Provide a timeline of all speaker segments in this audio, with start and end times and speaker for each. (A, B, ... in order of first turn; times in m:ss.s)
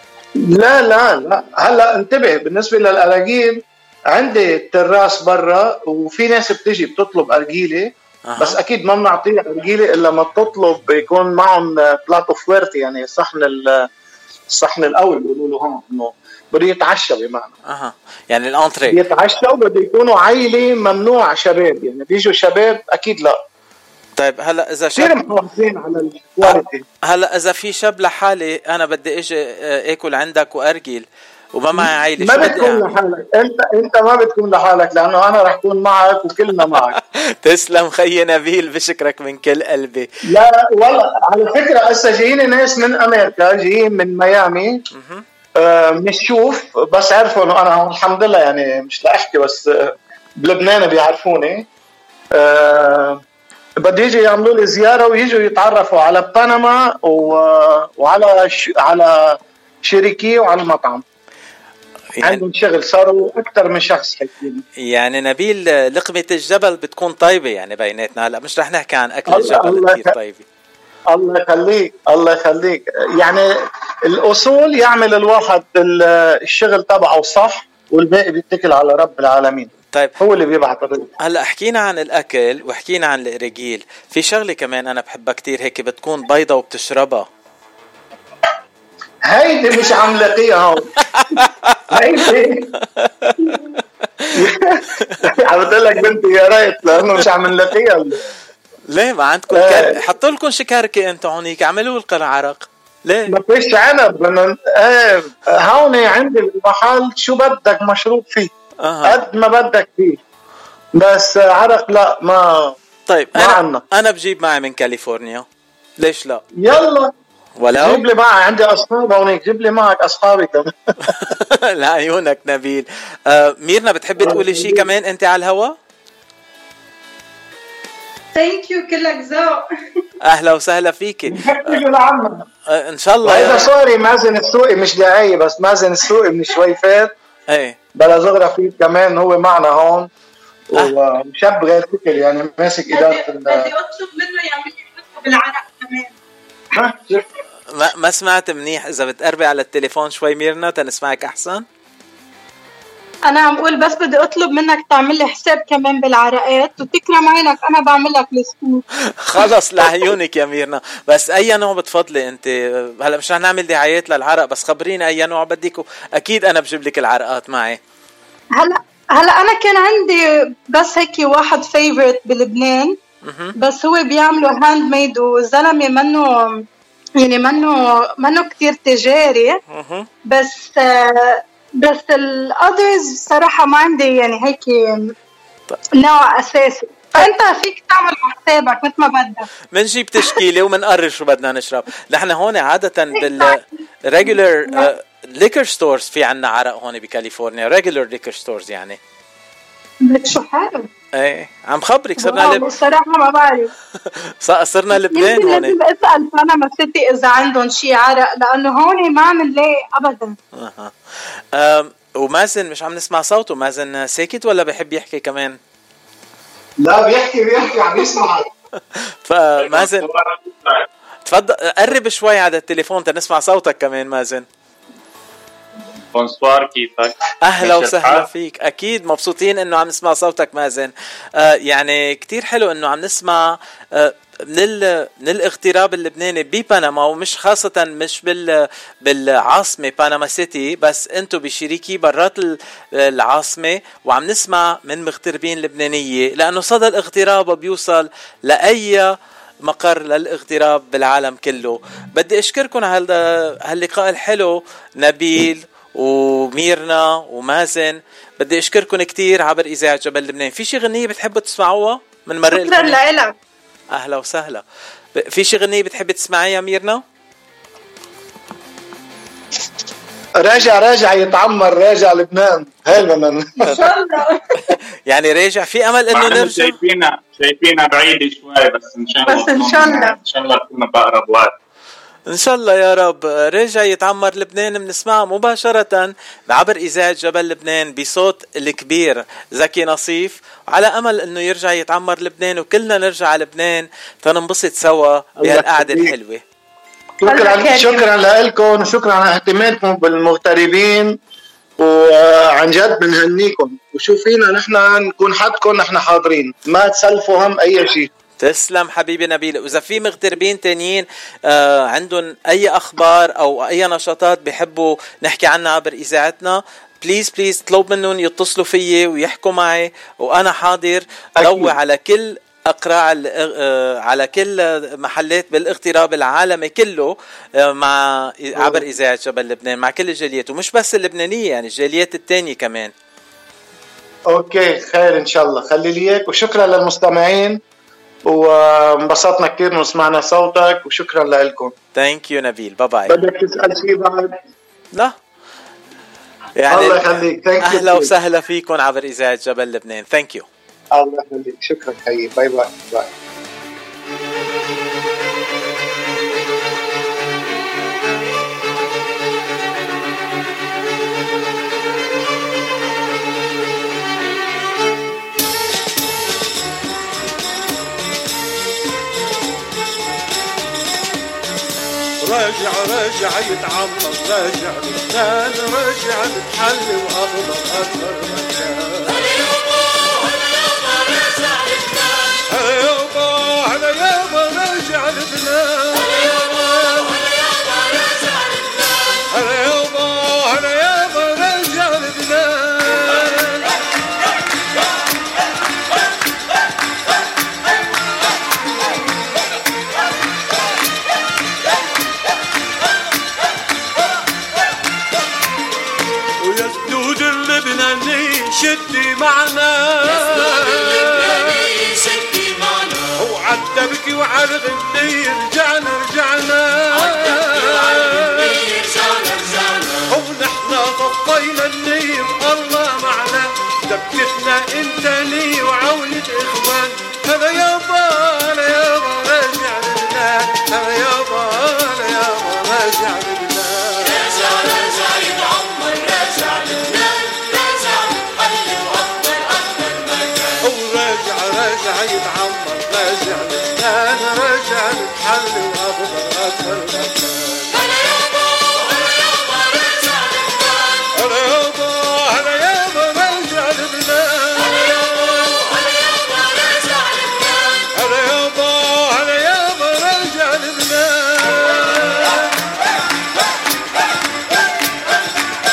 0:00.4-0:03.6 A
0:04.1-0:13.8 A
0:08.2-0:08.6 B
0:14.5-0:17.5 A
0:17.7-0:19.0 B
0:18.9-0:23.4 A
0:24.2-0:25.2 B
0:25.0-0:26.8 A
0:26.4-0:32.9 B
0:31.7-0:36.9 A
0:36.7-0:40.1 B
0:40.3-0:44.8 A
0:44.9-0:45.2 B
0:45.6-0:51.6 A
0:52.3-0:53.2 A
0:53.8-1:01.0 A
1:02.2-1:04.6 A
1:04.8-1:10.4 B
1:09.3-1:10.0 A
1:11.1-1:13.5 A
1:14.1-1:21.1 A
1:21.2-1:27.2 B
1:29.2-1:30.8 A
1:31.2-1:31.5 B
1:31.9-1:32.7 A
1:33.0-1:33.6 B
1:34.3-1:38.2 A
1:37.0-1:37.2 B
1:38.9-1:43.3 B
1:39.5-1:39.9 A
1:43.3-1:48.5 A
1:48.8-1:49.2 B
1:49.0-1:50.2 A
1:51.0-1:52.7 A
1:53.1-1:55.4 B
1:53.3-1:53.8 A
1:56.0-1:56.4 B
1:56.6-1:57.1 A
1:57.6-1:58.0 B
1:57.7-2:00.7 A
2:01.1-2:05.7 B
2:04.2-2:04.8 A
2:08.3-2:09.6 C
2:10.2-2:11.8 B
2:11.3-2:12.4 A
2:12.7-2:13.7 B
2:13.2-2:17.1 A
2:17.5-2:17.8 B
2:18.0-2:20.1 A
2:20.7-2:23.7 A
2:22.9-2:26.1 C
2:26.8-2:27.2 A
2:27.7-2:31.6 B
2:33.3-2:38.8 C
2:39.2-2:47.8 B
2:48.6-2:53.0 C
2:53.2-2:53.5 B
2:53.6-2:56.6 C
2:57.2-2:59.6 C
2:59.7-3:00.1 B
3:00.3-3:05.1 C
3:06.0-3:09.5 C
3:09.7-3:19.0 B
3:13.2-3:13.5 C
3:20.0-3:20.9 C
3:21.1-3:22.7 B
3:22.2-3:23.7 C
3:24.4-3:25.7 B
3:25.1-3:30.4 C
3:30.5-3:30.9 B
3:31.5-3:35.6 B
3:36.8-3:38.5 A
3:39.0-3:40.1 B
3:39.6-3:40.8 D
3:41.2-3:44.4 B
3:46.1-3:48.2 D
3:47.4-4:09.1 B
4:09.6-4:23.0 B
4:22.5-4:23.3 C
4:23.9-4:24.6 B
4:25.1-4:27.0 B
4:30.4-4:33.9 A
4:33.7-4:34.4 C
4:35.1-4:36.7 B
4:36.1-4:41.5 D
4:39.3-4:40.1 C
4:42.3-4:56.4 B
4:55.4-4:56.1 A
4:57.2-5:01.2 A
4:57.2-4:58.0 C
5:01.8-5:08.1 A
5:08.4-5:32.9 B
5:21.4-5:21.7 A
5:28.6-5:28.8 A
5:34.3-5:37.6 A
5:38.2-5:41.7 A
5:41.9-5:43.2 B
5:43.1-5:44.4 A
5:46.6-5:50.4 B
5:46.7-5:48.1 A
5:50.9-5:53.1 A
6:12.2-6:19.3 E
6:22.5-6:27.2 E
6:29.3-6:33.7 E
6:46.4-6:52.2 E
6:53.0-6:58.9 E
6:59.9-7:14.4 E
7:20.6-7:27.7 E
7:31.1-7:35.3 E
7:37.9-7:42.3 E